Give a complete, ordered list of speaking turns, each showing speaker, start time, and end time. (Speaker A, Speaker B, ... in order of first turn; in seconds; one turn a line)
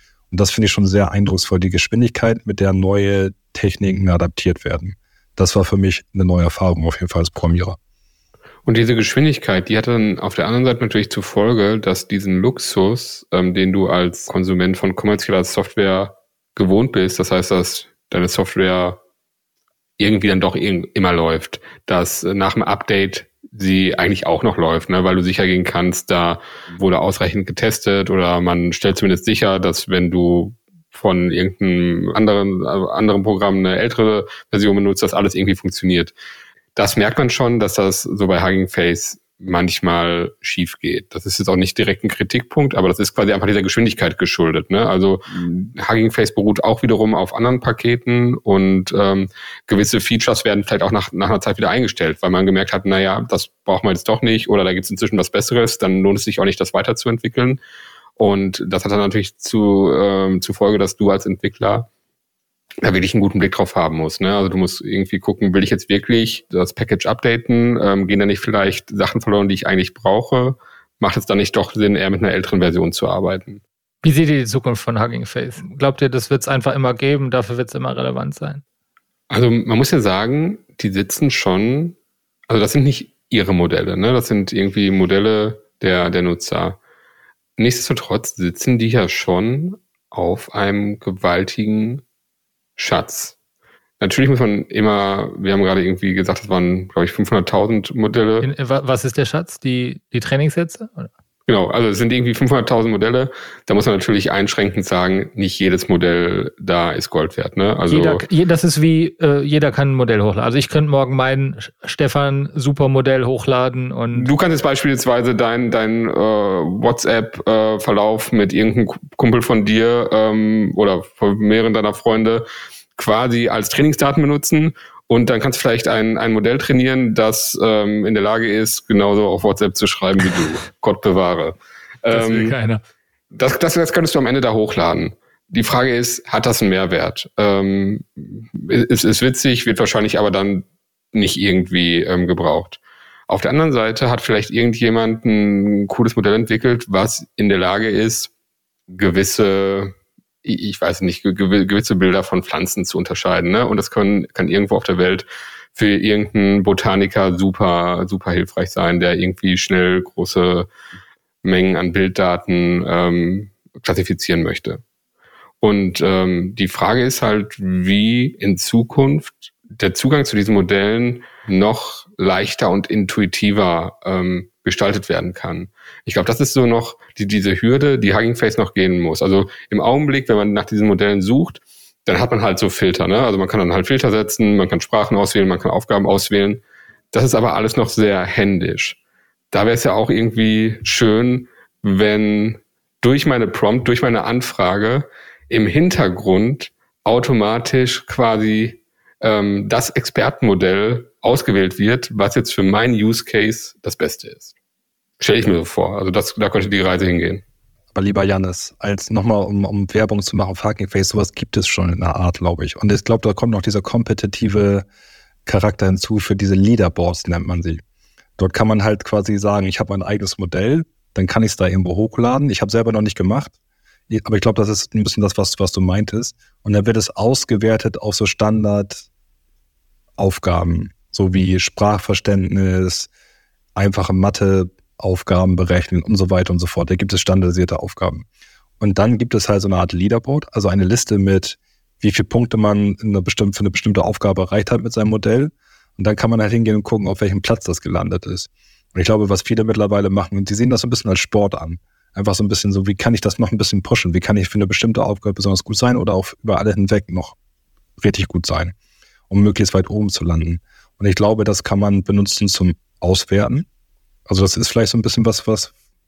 Speaker A: 0.3-7.8
Speaker B: 8.6-19.0
Speaker B: 20.0-36.1
Speaker B: 36.7-57.6
Speaker B: 58.2-61.9
Speaker B: 62.8-73.6
Speaker C: 74.0-78.6
Speaker B: 79.3-82.0
Speaker B: 82.5-86.8
Speaker B: 87.6-92.0
Speaker B: 92.8-93.3
Speaker B: 94.0-98.5
Speaker C: 98.4-101.1
Speaker B: 101.5-108.2
Speaker C: 107.9-114.3
Speaker B: 114.1-122.4
Speaker B: 123.0-132.6
Speaker C: 132.1-132.8
Speaker B: 133.3-148.3
Speaker B: 148.9-160.7
Speaker B: 161.4-164.8
Speaker B: 165.6-186.6
Speaker B: 187.1-189.0
Speaker B: 189.5-204.5
Speaker B: 205.2-207.4
Speaker A: 207.9-214.8
Speaker A: 215.4-217.8
Speaker A: 218.4-223.5
Speaker A: 224.1-229.1
Speaker A: 230.2-233.1
Speaker A: 233.7-238.2
Speaker A: 238.8-257.3
Speaker A: 258.0-258.7
Speaker A: 259.3-263.6
Speaker A: 264.3-265.7